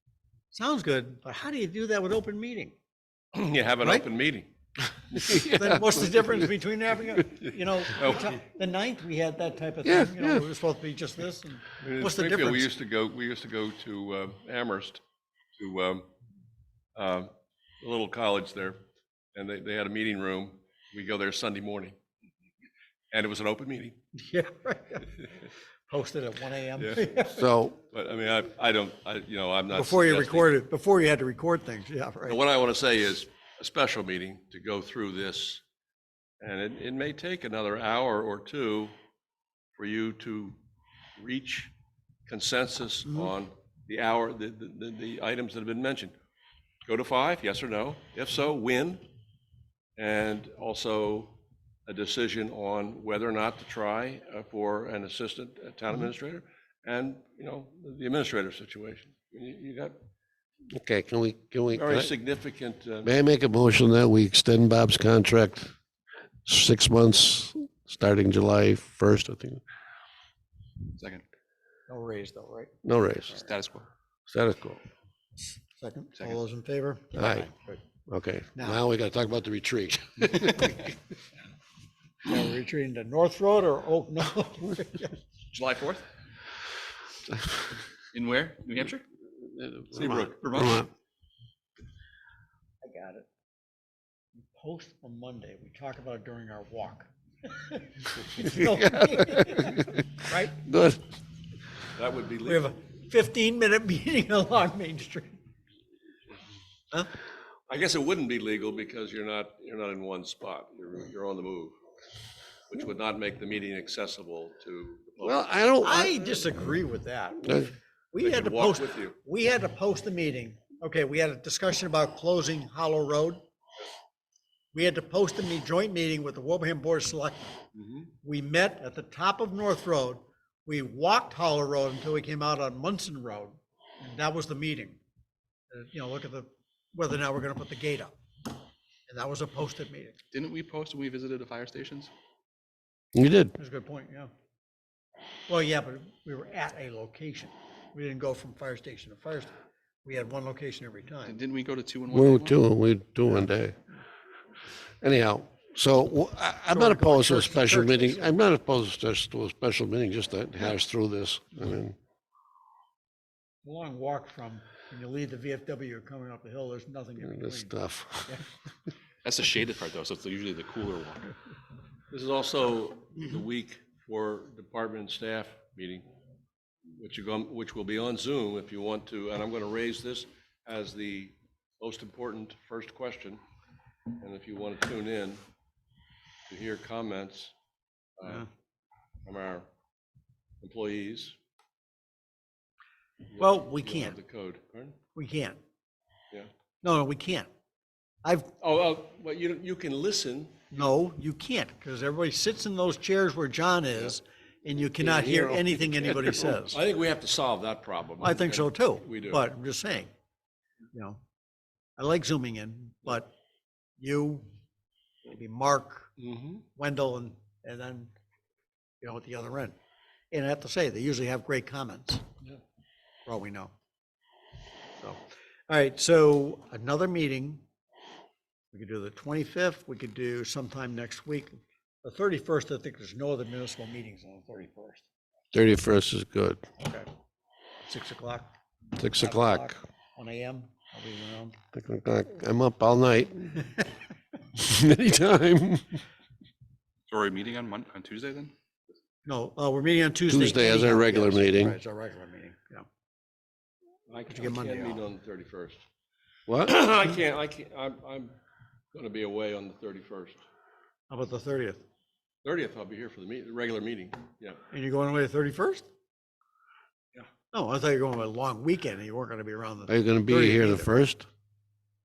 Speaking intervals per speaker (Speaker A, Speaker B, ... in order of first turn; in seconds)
Speaker A: 0.5-2.8, 5.2-12.7, 24.2-25.1, 25.9-27.5, 29.7-32.4, 71.9-72.8, 75.8-77.8, 82.3-85.2, 92.8-93.3, 94.4-100.6, 102.5-105.4, 115.8-123.4, 124.7-127.5, 128.2-135.0, 135.7-138.1, 139.1-140.2, 143.6-144.3, 145.5-149.5, 150.1-151.4, 156.7-158.2, 163.6-167.7, 193.4-194.2, 195.2-195.6, 196.8-197.5, 198.2-198.5, 200.7-206.8, 208.2-210.1, 210.9-211.2, 212.0-213.3, 214.0-214.5, 215.2-216.1, 216.8-218.1, 219.0-219.8, 220.3-222.2, 223.3-223.7, 225.0-227.6, 228.7-235.0, 237.9-238.5, 239.2-241.6, 249.2-252.8, 254.3-255.0, 261.1-261.8, 264.7-265.9, 267.5-270.9
Speaker B: 3.3-4.5, 7.4-8.4, 11.8-15.0, 15.6-16.1, 17.0-18.8, 19.4-22.0, 23.1-24.0, 26.8-27.1, 27.9-30.5, 32.3-35.6, 36.4-38.9, 39.8-40.6, 41.2-41.7, 42.3-46.1, 46.9-49.0, 50.0-51.3, 51.9-60.0, 61.7-63.1, 90.0-90.3, 102.0-102.7, 107.7-111.8, 112.7-115.4, 118.2-119.2, 127.8-128.1, 172.1-176.1, 176.9-183.4, 184.2-185.4, 186.5-187.5, 188.2-188.5, 189.3-189.7, 190.6-191.4, 193.3-195.0, 198.6-200.8, 205.0-209.4, 216.2-216.6, 254.1-255.8, 256.6-258.3, 258.9-260.4, 262.4-264.6
Speaker C: 5.2-6.3, 9.8-10.4, 27.4-27.8, 60.7-62.1, 63.0-65.7, 66.5-69.6, 72.8-73.5, 74.3-74.8, 77.2-77.5, 78.1-80.9, 89.6-90.9, 98.6-100.0, 100.6-101.0, 115.2-116.5, 117.5-117.7, 143.2-143.6, 152.1-153.8, 155.0-161.9, 167.2-168.4, 235.5-236.6, 239.0-239.8, 241.7-243.7, 244.6-246.0, 250.3-251.8, 269.9-271.3
Speaker D: 71.0-71.2, 73.5-73.9, 85.5-86.1, 88.1-89.0, 89.9-90.8, 140.3-142.1, 151.2-152.6, 169.2-171.3, 247.1-248.5